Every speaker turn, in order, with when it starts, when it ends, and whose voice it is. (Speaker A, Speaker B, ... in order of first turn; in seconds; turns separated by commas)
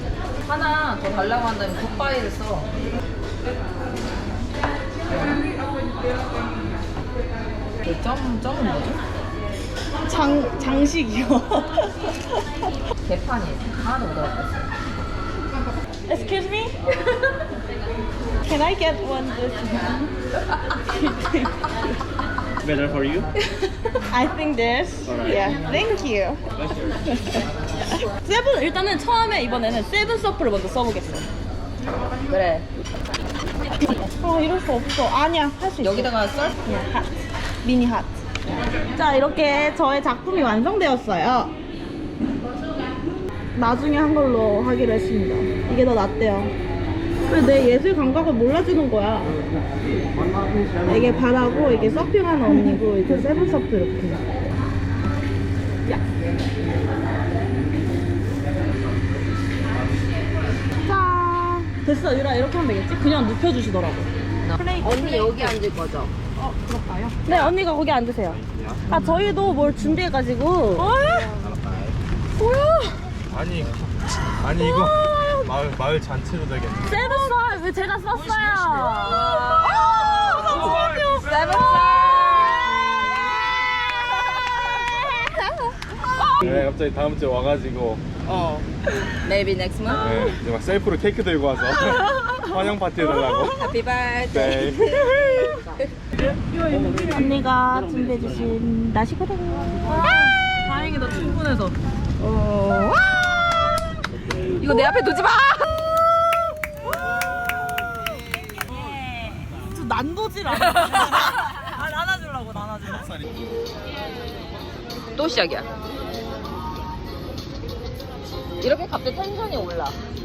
Speaker A: 0.4-2.7, Speaker A: 5.1-5.4, Speaker A: 7.8-9.0, Speaker B: 10.0-12.0, Speaker A: 13.0-14.5, Speaker B: 16.1-17.2, Speaker B: 18.4-20.1, Speaker B: 20.8-21.6, Speaker C: 22.6-23.3, Speaker B: 24.1-26.4, Speaker C: 25.1-25.6, Speaker C: 26.6-27.1, Speaker B: 27.0-27.4, Speaker B: 28.1-31.3, Speaker A: 32.3-32.7, Speaker B: 33.9-37.1, Speaker A: 35.8-36.5, Speaker B: 37.6-38.1, Speaker B: 38.9-41.5, Speaker B: 43.5-46.5, Speaker B: 47.2-49.4, Speaker B: 50.8-54.5, Speaker B: 60.8-65.5, Speaker A: 64.4-66.1, Speaker B: 66.4-71.5, Speaker B: 72.4-73.0, Speaker D: 73.3-77.2, Speaker B: 74.6-75.5, Speaker B: 76.8-83.1, Speaker A: 78.9-85.2, Speaker D: 80.5-81.5, Speaker A: 86.0-86.5, Speaker D: 86.4-88.0, Speaker A: 88.2-90.3, Speaker D: 90.0-93.7, Speaker A: 91.8-95.9, Speaker D: 94.3-94.9, Speaker B: 96.2-101.8, Speaker C: 96.7-97.1, Speaker A: 102.2-103.7, Speaker A: 104.5-105.7, Speaker B: 107.0-107.5, Speaker B: 108.3-113.2, Speaker A: 110.8-111.3, Speaker A: 115.1-115.7, Speaker A: 118.6-120.0